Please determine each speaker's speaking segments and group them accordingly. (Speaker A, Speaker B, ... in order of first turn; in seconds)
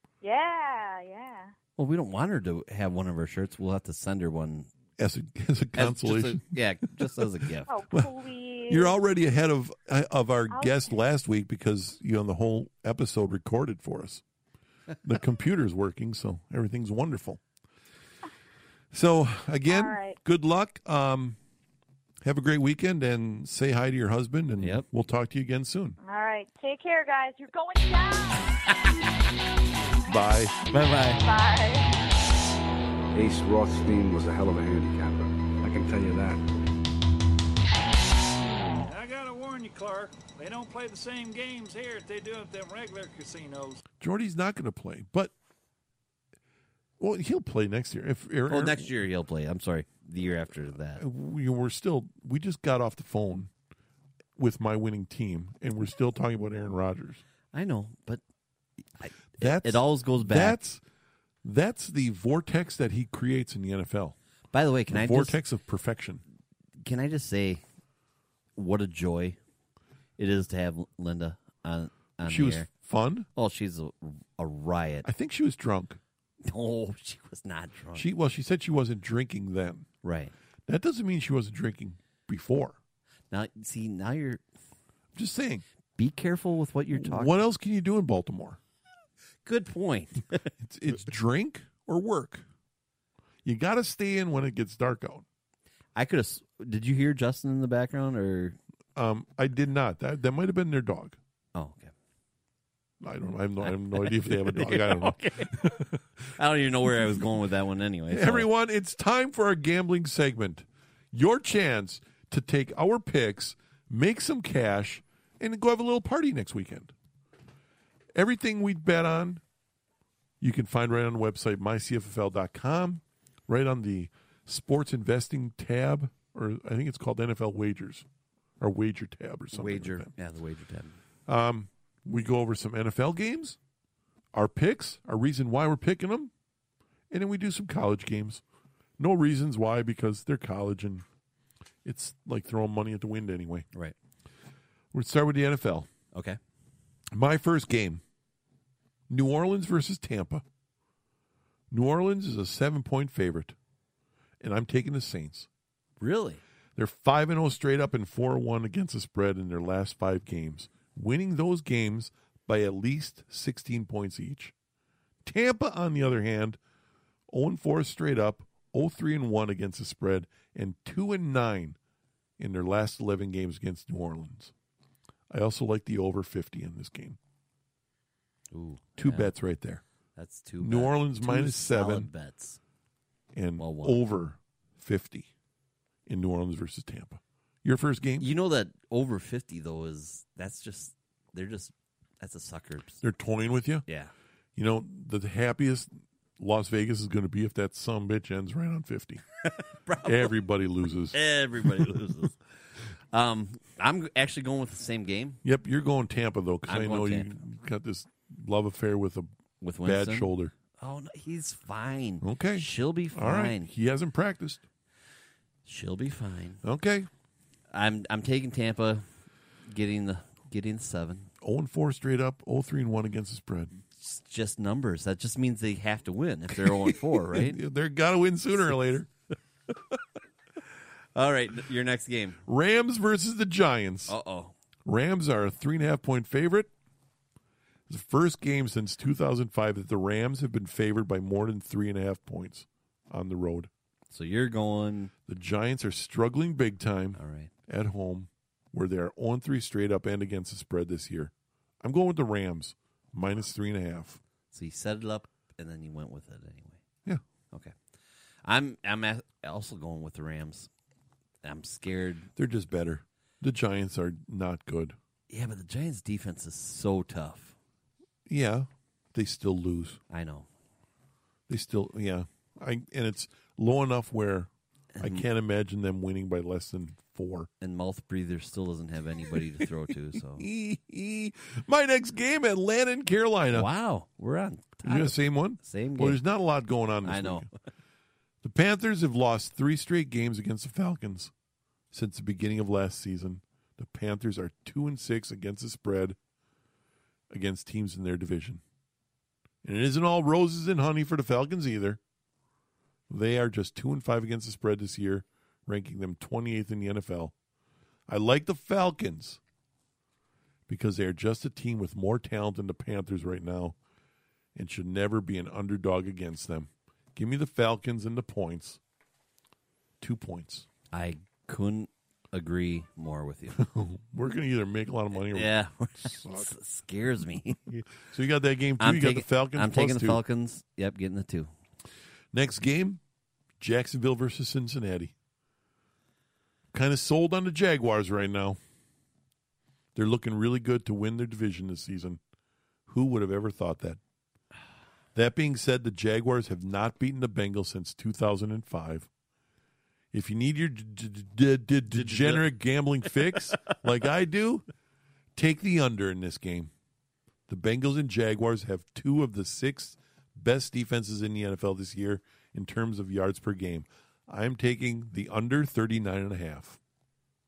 Speaker A: 0.2-1.5, 7.7-8.9, 19.7-20.2, 26.0-28.5, 31.2-31.9
Speaker B: 1.8-4.7, 5.7-7.7, 24.6-24.9, 30.7-31.2, 48.5-51.0, 57.5-58.2, 59.0-60.6, 64.5-65.4, 66.8-67.6, 68.5-69.4, 70.2-72.7, 73.3-75.1, 76.4-78.1, 80.0-80.3, 83.3-84.4, 86.0-87.3, 89.4-90.5, 95.9-98.6, 101.5-101.9, 103.6-105.7, 106.3-108.5, 129.5-131.0, 146.1-146.4, 156.0-156.4, 178.5-179.3, 180.2-182.6, 183.6-184.0, 188.2-193.0, 193.9-194.1, 199.4-200.3, 201.1-202.4, 203.1-205.4, 206.7-207.3, 209.6-213.7, 215.6-216.6, 217.7-219.1, 219.6-221.3, 223.9-227.6, 231.1-232.4, 234.1-234.5, 244.1-245.1, 247.1-247.5, 254.5-256.8, 258.4-260.7, 261.4-262.3, 265.3-267.5, 270.1-270.5, 274.9-275.2, 277.6-280.5, 283.5-286.2, 287.0-287.5, 320.9-323.6, 325.2-327.6, 328.8-331.5, 351.9-352.4
Speaker C: 5.0-7.2, 8.7-14.2, 15.0-17.4, 18.9-21.4, 22.2-26.0, 30.1-30.6, 44.0-45.3, 47.0-48.9, 51.0-53.5, 54.4-57.2, 59.4-60.8, 61.4-64.2, 64.9-66.2, 72.2-73.3, 75.0-76.0, 77.9-79.9, 80.7-82.8, 85.1-85.6, 86.9-88.6, 90.6-92.4, 93.4-95.2, 98.9-101.2, 103.0-106.0, 108.1-116.9, 118.1-119.4, 120.4-128.1, 128.6-130.1, 131.3-133.6, 134.3-136.3, 137.1-138.4, 139.0-141.0, 141.8-143.7, 144.9-145.9, 147.1-148.0, 149.1-150.4, 151.7-153.5, 154.4-155.5, 156.8-164.5, 165.2-166.6, 167.3-171.8, 172.4-174.5, 175.3-177.2, 179.0-179.8, 180.6-182.1, 183.3-185.3, 186.1-188.3, 193.0-193.8, 194.6-199.2, 200.0-202.0, 205.4-209.3, 209.8-210.5, 212.2-214.6, 216.6-217.1, 221.4-223.7, 226.5-229.1, 232.4-234.1, 234.8-236.7, 237.9-243.7, 245.3-254.2, 262.4-264.9, 268.3-270.0, 271.5-274.5, 275.0-277.5, 279.6-283.7, 284.8-287.5, 288.4-291.3, 291.9-296.2, 297.3-298.6, 299.6-302.0, 303.1-307.3, 308.1-309.4, 310.7-313.8, 314.5-318.8, 320.0-320.7, 323.5-326.5, 328.0-330.2, 332.3-333.0, 333.6-335.1, 336.7-338.6, 339.9-342.2, 342.9-344.0, 345.1-349.1, 350.1-354.6, 355.4-356.7, 357.5-366.8
Speaker D: 33.1-36.4
Speaker E: 38.8-43.8